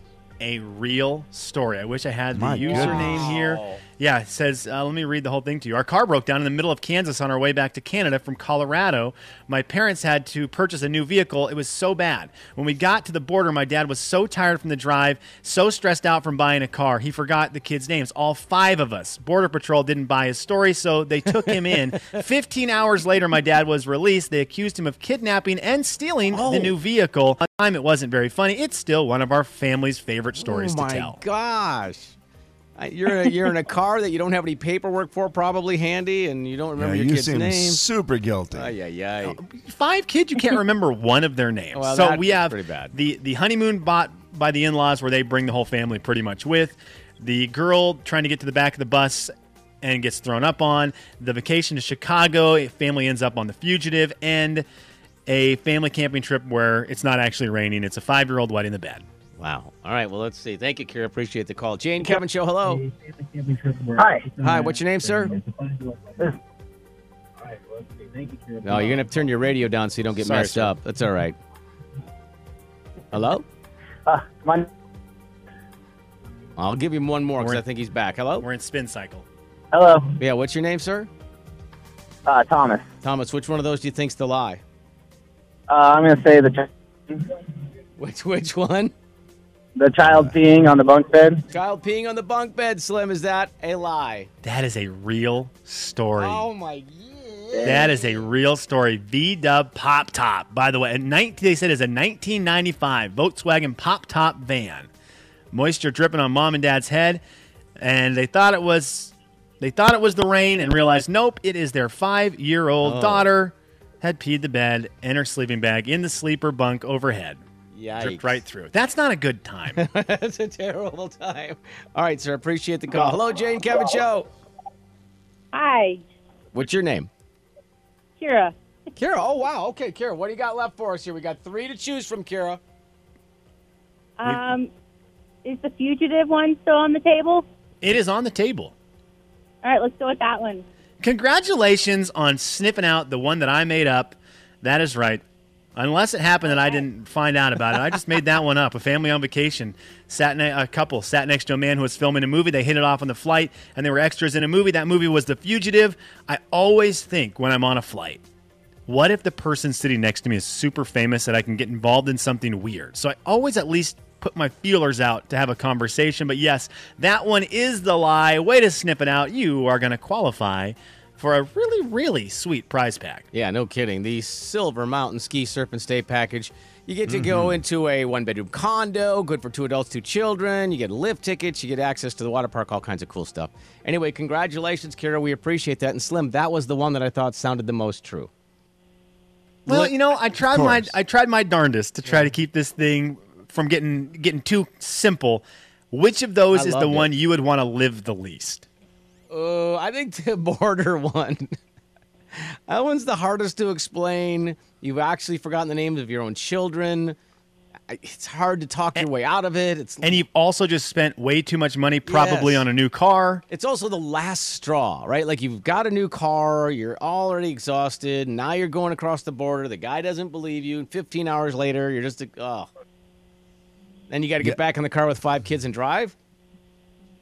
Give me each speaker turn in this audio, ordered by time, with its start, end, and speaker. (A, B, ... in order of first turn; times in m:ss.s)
0:00.4-0:31.2 A
0:02.3-0:03.3 B
0:02.6-0:03.8 C
0:21.4-0:22.2 C
0:26.3-0:26.8 C
0:30.4-0:32.2 C
0:32.8-0:37.8 C
0:36.8-0:38.7 B
0:38.5-0:39.4 C
0:39.3-0:54.6 A
0:41.7-0:42.9 C
0:55.3-0:59.0 A
0:59.4-1:02.8 C
1:04.0-1:04.3 D
1:04.4-1:05.4 C
1:08.6-1:11.4 C
1:10.2-1:10.8 A
1:13.1-1:13.4 C
1:14.1-1:14.6 D
1:16.6-1:18.5 C
1:17.4-1:17.6 A
1:18.4-1:19.3 A
1:19.7-1:20.2 D
1:20.2-1:21.1 C
1:22.3-1:22.8 D
1:23.0-1:24.6 C
1:25.7-1:27.2 D
1:28.0-1:29.0 C
1:29.8-1:31.4 D
1:30.1-1:30.3 B
1:31.5-1:34.3 C
1:34.4-1:36.4 A
1:36.2-1:38.2 C
1:37.6-1:37.9 D
1:37.6-1:44.9 A
1:45.5-1:47.2 A
1:47.8-1:57.4 A
1:52.8-1:53.3 C
1:57.7-1:58.4 C
1:58.0-1:59.8 A
1:59.8-2:04.3 C
2:05.5-2:06.0 E
2:06.5-2:07.1 C
2:08.2-2:08.5 E
2:08.9-2:12.6 C
2:14.2-2:14.7 E
2:15.4-2:17.4 E
2:17.8-2:18.7 A
2:19.6-2:20.6 E
2:21.0-2:25.2 A
2:25.8-2:38.2 A
2:38.9-2:53.3 A
2:53.3-3:08.3 C
2:57.1-2:57.6 B
3:09.7-3:09.9 C
3:09.7-3:18.7 A
3:10.5-3:11.0 B
3:12.0-3:12.3 C
3:16.5-3:17.1 C
3:19.3-3:21.5 C
3:22.3-3:27.2 C
3:27.9-3:30.2 C
3:30.0-3:33.4 A
3:32.1-3:32.7 C
3:33.5-3:42.7 C
3:44.1-3:46.2 C